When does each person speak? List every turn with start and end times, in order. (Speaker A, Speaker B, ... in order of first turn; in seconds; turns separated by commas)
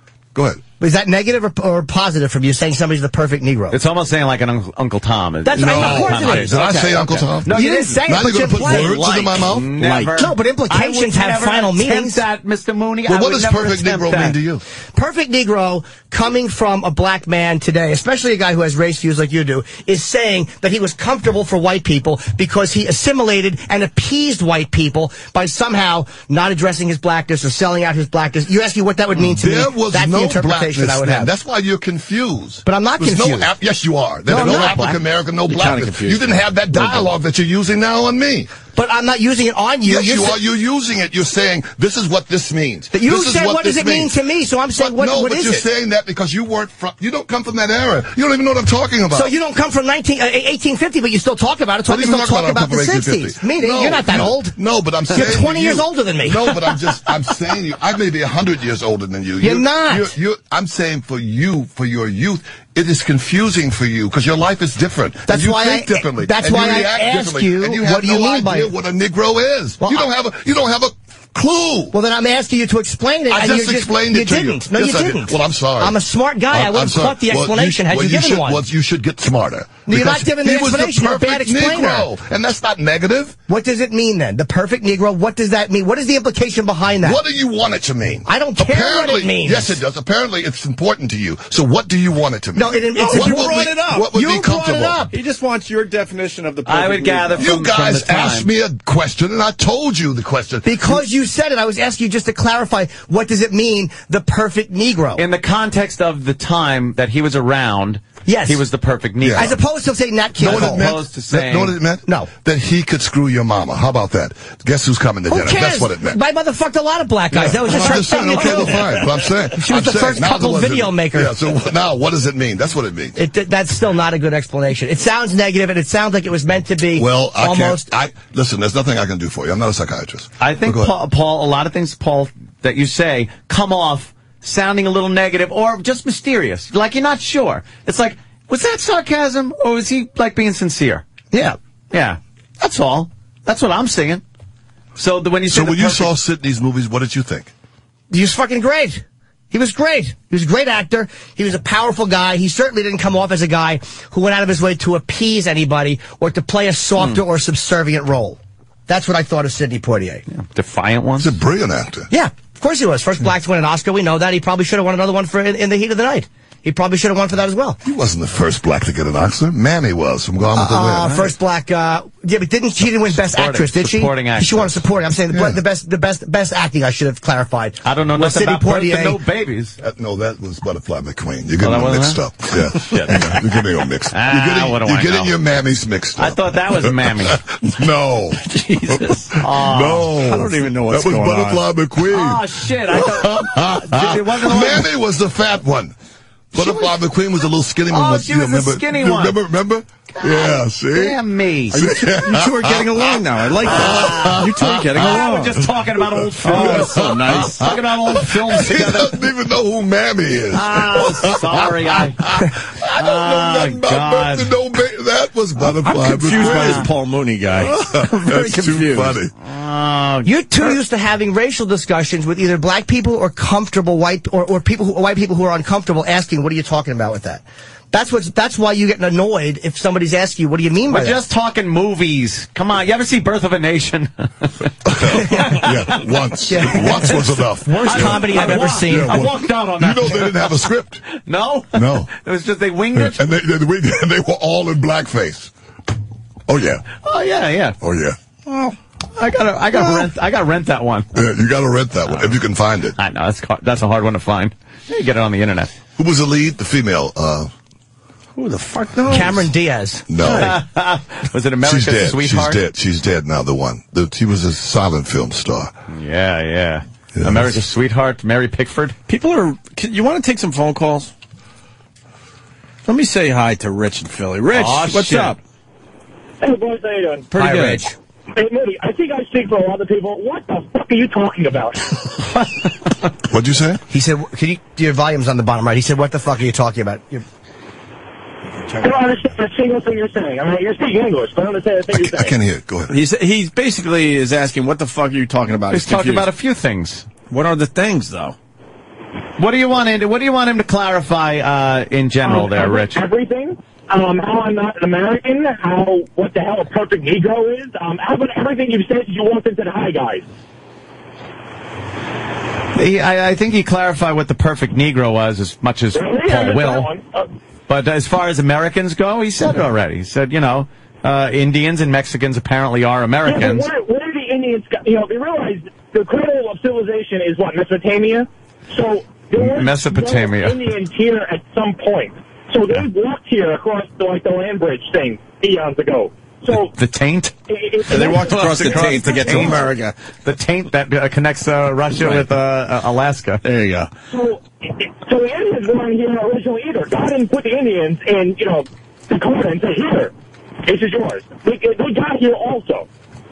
Speaker A: 0.3-0.6, Speaker B: 0.8-3.8, Speaker C: 3.7-8.9, Speaker B: 5.4-6.6, Speaker A: 5.5-9.7, Speaker B: 7.9-8.9, Speaker D: 8.6-10.2, Speaker C: 9.4-14.4, Speaker B: 10.2-12.2, Speaker A: 13.1-14.6, Speaker B: 14.9-31.3, Speaker A: 29.1-38.5, Speaker B: 32.6-33.5, Speaker C: 34.3-35.0, Speaker D: 34.4-34.9, Speaker D: 35.5-36.8, Speaker B: 38.7-40.4, Speaker A: 39.9-44.1, Speaker B: 42.9-45.6, Speaker A: 44.8-49.3, Speaker B: 49.1-54.6, Speaker A: 51.9-71.9, Speaker B: 55.1-56.5, Speaker B: 59.4-60.1, Speaker B: 65.3-68.7, Speaker B: 69.8-70.1, Speaker B: 71.9-78.6, Speaker A: 73.3-76.0, Speaker A: 76.5-83.4, Speaker B: 79.9-82.1, Speaker B: 83.5-87.2, Speaker A: 87.0-95.1, Speaker B: 88.3-89.8, Speaker B: 92.5-93.5, Speaker D: 92.9-94.2, Speaker B: 94.1-95.1, Speaker D: 95.1-97.5, Speaker C: 96.6-98.5, Speaker A: 97.4-101.0, Speaker B: 100.6-105.2, Speaker C: 105.2-109.6, Speaker B: 108.3-108.6, Speaker A: 109.2-109.6, Speaker B: 109.3-110.8, Speaker A: 110.4-116.2, Speaker C: 110.4-111.7, Speaker B: 115.3-118.8, Speaker A: 117.3-123.2, Speaker D: 118.5-119.0, Speaker B: 119.5-121.3, Speaker B: 123.2-127.8, Speaker A: 126.9-130.9, Speaker C: 130.4-141.1, Speaker B: 141.3-141.6, Speaker C: 141.9-144.2, Speaker C: 144.9-146.1, Speaker A: 145.5-147.5, Speaker B: 148.1-160.2, Speaker C: 160.3-161.3, Speaker A: 161.2-162.1, Speaker B: 162.1-167.8, Speaker A: 167.8-171.3, Speaker B: 170.5-179.2, Speaker C: 173.1-174.8, Speaker A: 175.3-175.6, Speaker C: 177.8-179.8, Speaker A: 179.8-195.9, Speaker C: 181.6-182.2, Speaker C: 182.9-183.4, Speaker C: 184.1-185.3, Speaker C: 186.2-187.4, Speaker D: 188.4-189.4, Speaker C: 189.4-190.1, Speaker D: 190.1-191.6, Speaker C: 192.1-194.9, Speaker A: 196.5-201.2, Speaker C: 196.6-196.9, Speaker C: 197.9-199.4, Speaker C: 200.2-201.8, Speaker A: 201.7-205.7, Speaker D: 201.7-205.7, Speaker C: 203.6-209.2, Speaker A: 206.2-216.9, Speaker D: 206.4-207.7, Speaker C: 210.5-214.5, Speaker D: 215.7-219.2, Speaker C: 216.3-216.8, Speaker A: 217.6-219.3, Speaker C: 219.4-220.3, Speaker B: 220.2-231.2, Speaker C: 230.9-235.8, Speaker A: 234.8-241.1, Speaker B: 235.3-235.7, Speaker B: 236.5-239.3, Speaker C: 236.8-237.2, Speaker C: 237.8-243.3, Speaker A: 241.7-242.1, Speaker A: 242.9-245.5, Speaker A: 246.5-246.8, Speaker C: 247.0-247.8, Speaker A: 247.8-248.2, Speaker D: 248.4-248.8, Speaker C: 249.1-251.2, Speaker A: 251.1-253.0, Speaker C: 252.1-252.3, Speaker C: 253.0-255.7, Speaker A: 256.0-257.5, Speaker D: 258.4-259.5, Speaker B: 259.1-260.1, Speaker A: 260.1-260.6, Speaker C: 260.2-262.6, Speaker A: 261.6-265.7, Speaker C: 265.9-268.9, Speaker A: 267.1-267.6, Speaker D: 269.1-271.1, Speaker D: 272.9-275.4, Speaker C: 274.5-275.4, Speaker E: 276.4-277.3, Speaker D: 277.3-277.9, Speaker C: 277.4-277.8, Speaker E: 278.4-282.3, Speaker C: 282.4-282.7, Speaker A: 283.3-283.8, Speaker B: 283.9-287.2, Speaker E: 288.8-292.3, Speaker A: 291.9-293.0, Speaker D: 292.9-296.3, Speaker C: 295.7-297.1, Speaker D: 297.3-298.4, Speaker C: 299.4-303.1, Speaker E: 302.2-310.2, Speaker C: 312.7-316.9, Speaker E: 315.9-317.3, Speaker C: 317.7-323.7, Speaker E: 323.2-336.7, Speaker C: 329.4-330.6, Speaker C: 336.6-337.4, Speaker E: 337.5-339.6, Speaker D: 337.9-339.9, Speaker C: 337.9-339.7, Speaker C: 340.2-343.4, Speaker D: 342.0-342.3, Speaker D: 343.4-343.9, Speaker E: 344.1-350.1, Speaker E: 350.6-352.9